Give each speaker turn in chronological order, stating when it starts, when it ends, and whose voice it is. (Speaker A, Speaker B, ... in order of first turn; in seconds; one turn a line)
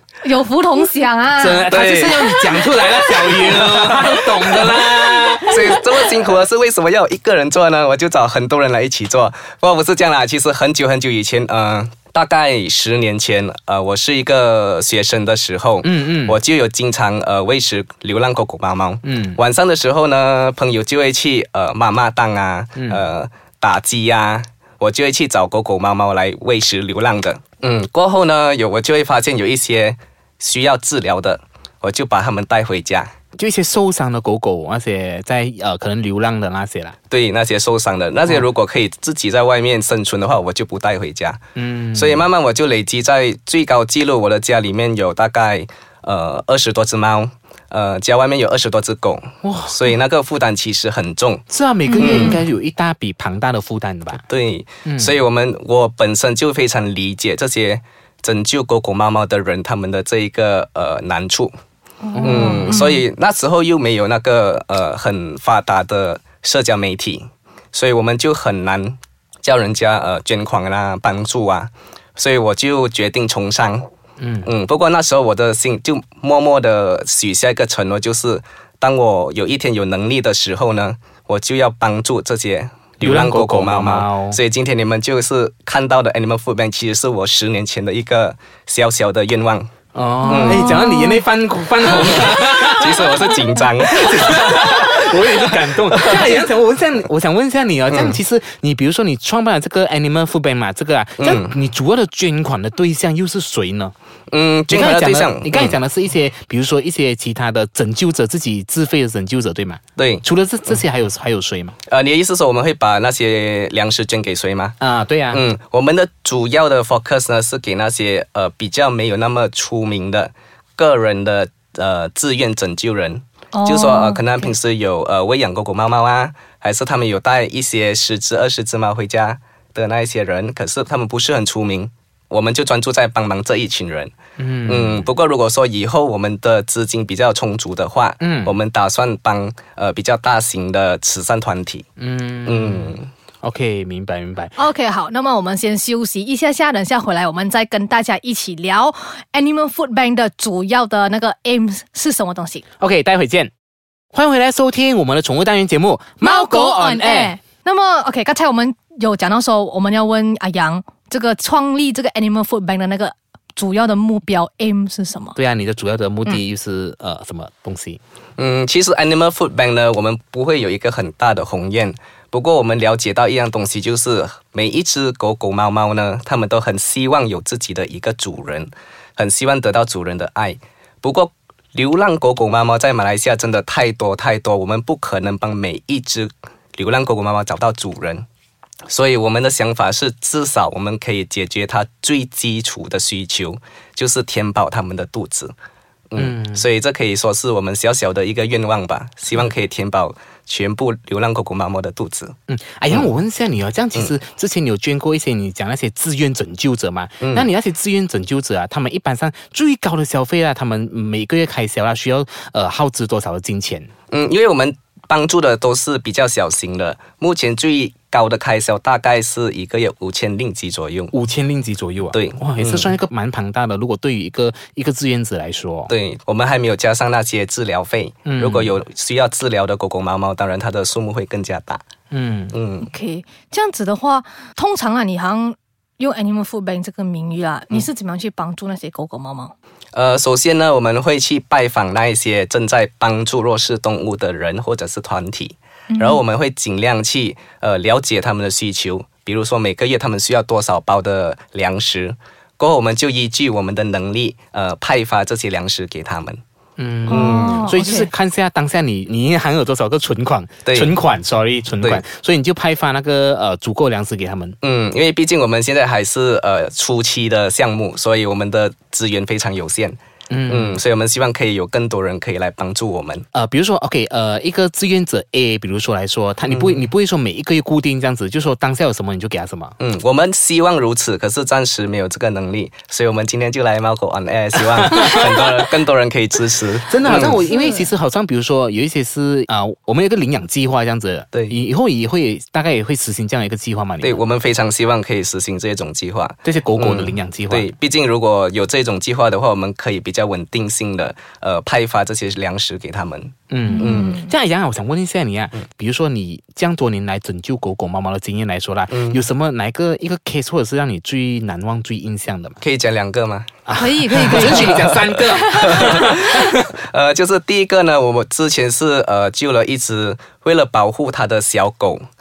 Speaker A: 0.2-1.8
Speaker B: 1.4-5.8
Speaker C: 1.7-2.3
Speaker C: 3.0-4.8
Speaker C: 5.4-33.1
Speaker B: 15.8-16.4
Speaker B: 19.0-19.4
Speaker B: 33.4-37.0
Speaker C: 37.1-41.4
Speaker B: 41.5-42.3
Speaker C: 41.9-51.4
Speaker B: 49.4-49.8
Speaker B: 51.5-54.2
Speaker A: 51.8-52.4
Speaker C: 52.0-52.4
Speaker C: 54.3-61.5
Speaker B: 54.8-55.1
Speaker A: 62.0-63.0
Speaker B: 62.1-62.8
Speaker C: 62.2-73.8
Speaker B: 74.2-74.5
Speaker C: 74.4-89.7
Speaker B: 83.0-84.4
Speaker B: 89.9-103.9
Speaker A: 90.2-91.2
Speaker C: 90.3-90.8
Speaker C: 91.8-96.4
Speaker C: 97.9-98.2
Speaker C: 101.2-101.5
Speaker C: 104.3-105.8
Speaker B: 104.7-111.8
Speaker C: 110.0-110.2
Speaker C: 111.9-114.7
Speaker B: 114.8-115.4
Speaker C: 115.3-134.1
Speaker A: 123.5-124.5
Speaker B: 134.4-135.1
Speaker C: 134.7-141.8
Speaker B: 138.2-138.5
Speaker B: 142.0-144.5
Speaker C: 142.4-143.1
Speaker A: 144.6-152.6
Speaker B: 152.8-153.5
Speaker B: 154.1-157.3
Speaker A: 156.2-165.3
Speaker B: 165.3-168.0
Speaker C: 168.4-188.2
Speaker C: 188.9-195.5
Speaker C: 196.1-202.3
Speaker B: 196.2-196.6
Speaker B: 202.5-213.9
Speaker C: 207.2-207.5
Speaker C: 214.1-221.1
Speaker B: 221.1-225.9
Speaker C: 222.1-222.9
Speaker C: 225.9-231.8
Speaker B: 228.2-228.7
Speaker B: 232.1-232.6
Speaker C: 232.5-232.9
Speaker A: 232.8-239.5
Speaker C: 239.9-256.4
Speaker A: 245.9-246.2
Speaker B: 256.8-264.6
Speaker A: 257.1-258.1
Speaker C: 257.1-257.6
Speaker C: 260.6-260.9
Speaker C: 264.6-273.2
Speaker B: 270.3-270.8
Speaker B: 273.3-279.7
Speaker C: 276.5-276.9
Speaker C: 279.8-287.4
Speaker B: 286.9-294.2
Speaker A: 287.5-287.9
Speaker C: 294.0-304.2
Speaker B: 296.4-297.7
Speaker B: 303.5-312.6
Speaker A: 303.7-304.3
Speaker C: 308.9-309.2
Speaker C: 312.6-313.5
Speaker B: 313.7-316.6
Speaker A: 313.7-316.0
Speaker C: 314.1-322.0